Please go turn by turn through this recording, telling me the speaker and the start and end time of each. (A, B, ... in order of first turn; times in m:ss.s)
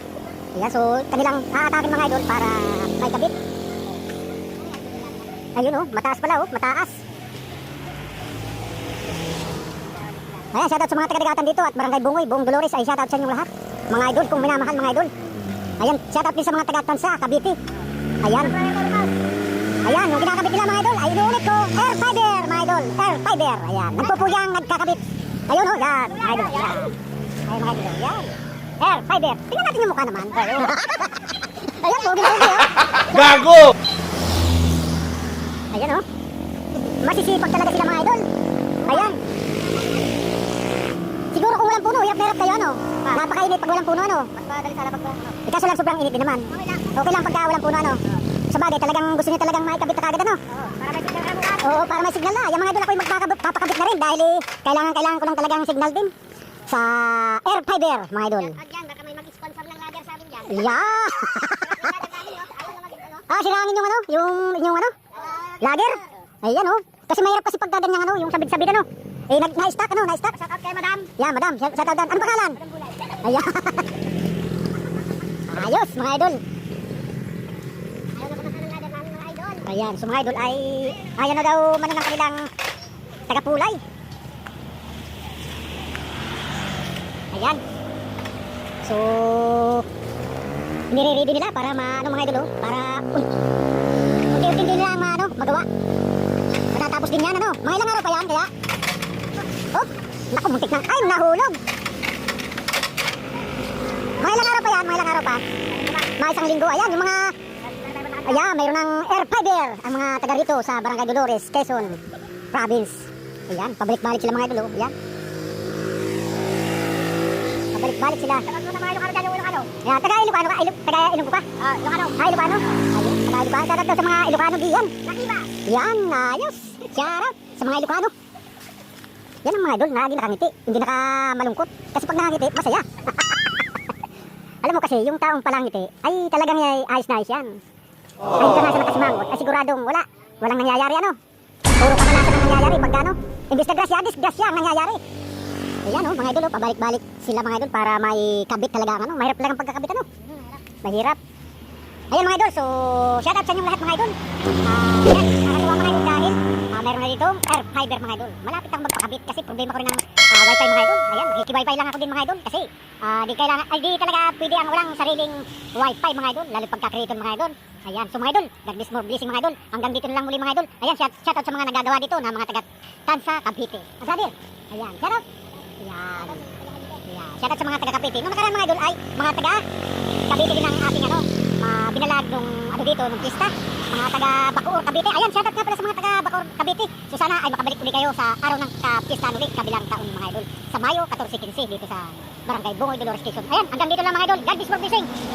0:00.5-0:03.4 A
0:04.6-0:05.2 B
0:05.5-0:07.0 A
0:10.5-0:15.1 A
0:15.8-0:17.6 A
0:18.2-0:18.6 A
0:18.4-0:19.1 B
0:19.8-0:26.9 A
0:26.2-0:26.9 B
0:27.5-0:33.6 A
0:35.7-0:36.0 A
0:36.8-0:38.2 A
0:38.8-0:40.0 B
0:38.9-0:39.2 A
0:41.3-0:44.3 A
0:44.4-0:45.3 B
0:45.4-0:50.4 A
0:46.5-0:46.9 B
0:50.5-0:51.6 B
0:51.6-0:56.1 A
0:56.6-0:58.6 A
0:58.4-1:00.7 B
1:00.5-1:02.0 A
1:01.6-1:03.2 B
1:03.3-1:04.9 A
1:05.2-1:05.6 B
1:05.6-1:10.4 A
1:10.4-1:11.1 B
1:11.0-1:13.9 A
1:15.5-1:16.4 A
1:18.2-1:19.6 B
1:19.6-1:22.5 A
1:23.2-1:23.8 A
1:27.3-1:27.6 A
1:28.8-1:29.8 A
1:30.9-1:33.3 A
1:34.3-1:35.7 A
1:36.7-1:38.5 A
1:39.7-1:41.6 A
1:44.2-1:45.4 A
1:46.0-1:47.3 A
1:47.6-1:48.3 B
1:48.1-1:52.0 A
1:52.5-1:54.9 A
1:57.7-1:58.5 A
1:58.5-1:59.7 B
1:59.7-2:01.4 A
2:01.6-2:02.2 B
2:02.1-2:05.0 A
2:05.0-2:05.5 B
2:05.6-2:08.1 A
2:09.4-2:13.8 A
2:14.6-2:17.6 A
2:18.4-2:21.2 A
2:21.8-2:25.0 A
2:25.8-2:30.1 A
2:30.7-2:31.2 A
2:32.1-2:34.1 A
2:34.6-2:55.2 A
2:55.8-2:59.6 A
3:00.3-3:15.1 A